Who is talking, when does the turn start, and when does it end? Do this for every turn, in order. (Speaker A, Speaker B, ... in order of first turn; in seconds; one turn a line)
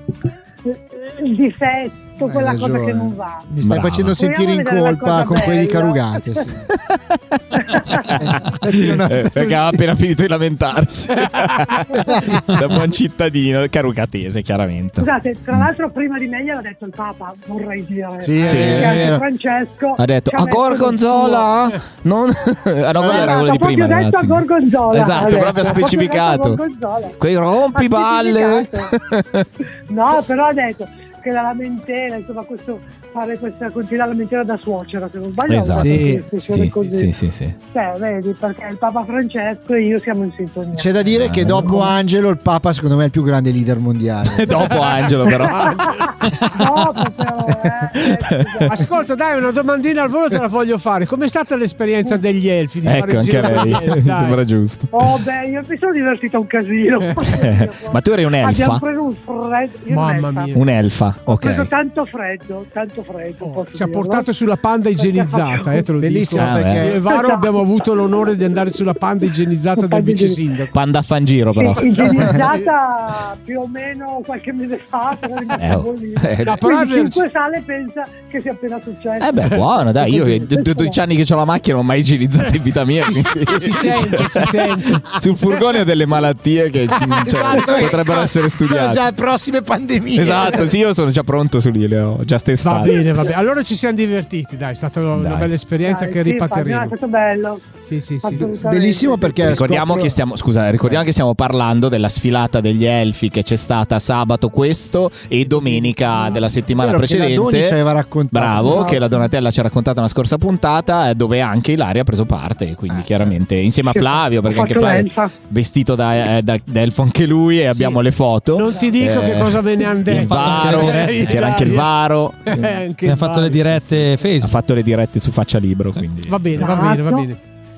Speaker A: 0.7-3.5
Speaker B: 2.2-6.7
Speaker C: 3.6-4.2
Speaker A: 4.2-6.4
Speaker C: 6.9-15.7
Speaker A: 7.6-8.2
Speaker B: 8.2-9.8
Speaker A: 15.0-21.5
Speaker B: 18.2-19.2
Speaker C: 18.4-19.1
Speaker C: 20.0-26.6
Speaker A: 23.0-27.2
Speaker C: 27.2-29.5
Speaker A: 27.7-28.9
Speaker A: 29.9-37.1
Speaker C: 35.5-37.6
Speaker B: 35.8-36.3
Speaker A: 37.7-40.9
Speaker B: 40.7-44.8
Speaker C: 41.1-41.8
Speaker C: 44.3-46.7
Speaker A: 45.3-49.0
Speaker C: 48.0-48.8
Speaker D: 48.7-54.4
Speaker C: 52.8-54.9
Speaker A: 54.9-60.6
Speaker C: 57.4-58.8
Speaker D: 59.9-60.6
Speaker C: 60.5-61.7
Speaker A: 61.3-64.3
Speaker D: 63.4-70.7
Speaker A: 65.0-65.8
Speaker B: 66.0-67.0
Speaker C: 66.4-66.9
Speaker A: 67.0-67.7
Speaker A: 69.8-70.4
Speaker C: 70.7-72.3
Speaker A: 71.5-81.0
Speaker D: 71.8-72.7
Speaker C: 75.6-76.6
Speaker D: 76.4-77.2
Speaker C: 79.2-89.0
Speaker D: 83.1-85.1
Speaker B: 87.0-90.8
Speaker C: 90.2-93.0
Speaker D: 92.6-96.9
Speaker C: 95.1-95.5
Speaker A: 95.9-97.7
Speaker D: 97.8-98.6
Speaker A: 98.2-99.5
Speaker B: 98.3-100.2
Speaker C: 99.4-107.8
Speaker D: 105.5-106.4
Speaker B: 106.8-109.2
Speaker C: 108.3-122.7
Speaker B: 113.0-113.3
Speaker A: 113.9-115.3
Speaker D: 117.7-118.0
Speaker D: 118.5-121.9
Speaker E: 120.1-121.4
Speaker D: 122.4-124.2
Speaker E: 123.0-124.6
Speaker C: 124.4-126.9
Speaker D: 126.3-127.4
Speaker A: 126.6-127.3